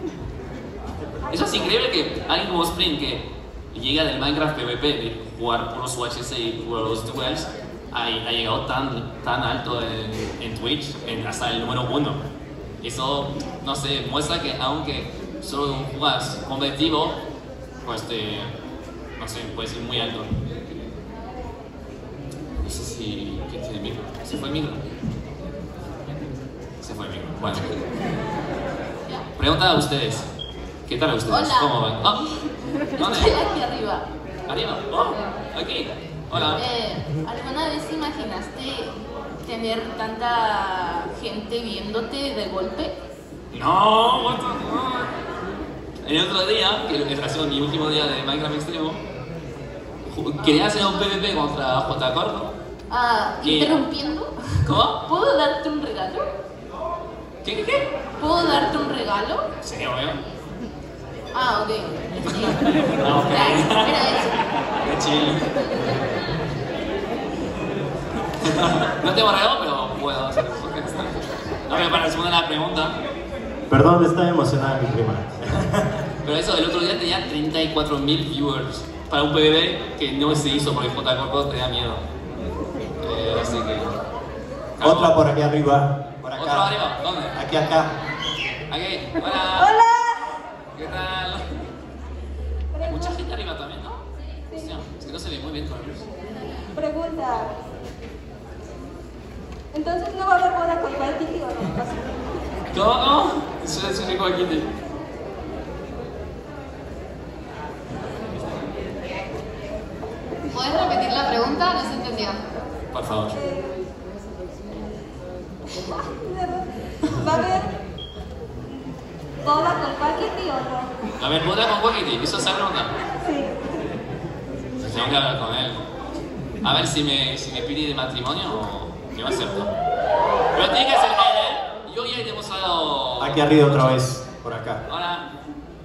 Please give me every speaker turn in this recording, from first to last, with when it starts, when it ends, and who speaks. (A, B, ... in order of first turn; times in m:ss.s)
0:01.3-0:12.2 A
0:12.8-0:17.2 A
0:17.8-0:18.5 A
0:19.2-0:20.4 A
0:22.6-0:24.9 A
0:26.8-0:27.7 A
0:29.4-0:30.3 A
0:30.9-0:32.2 A
0:31.3-0:32.3 B
0:33.0-0:34.0 B
0:33.0-0:33.3 A
0:34.5-0:36.6 A
0:36.5-0:42.9 B
0:43.5-0:45.2 A
0:46.0-0:49.0 A
0:50.0-0:52.5 A
0:50.4-0:50.7 B
0:52.9-0:54.3 B
0:53.4-0:53.8 A
0:54.6-0:55.0 A
0:55.0-0:56.3 B
0:57.4-0:57.8 A
0:58.2-0:59.4 B
0:59.6-1:00.2 A
1:01.3-1:02.6 B
1:02.4-1:04.1 A
1:03.1-1:04.4 B
1:04.8-1:05.6 A
1:08.4-1:13.0 A
1:13.7-1:15.9 C
1:16.2-1:22.0 A
1:23.0-1:24.0 A
1:24.8-1:25.2 A
1:24.8-1:26.7 C
1:26.4-1:27.4 A
1:27.3-1:27.9 C
1:28.7-1:29.8 A
1:30.7-1:31.4 A
1:32.8-1:34.0 A
1:34.5-1:36.1 A
1:36.8-1:37.3 D
1:42.7-1:44.7 A
1:50.5-1:52.4 E
1:52.9-1:53.3 A
1:59.4-2:00.9 D
2:01.2-2:02.9 A
2:04.8-2:05.8 A
2:06.6-2:09.7 A
2:10.5-2:14.0 A
2:13.2-2:14.8 C
2:14.8-2:15.3 A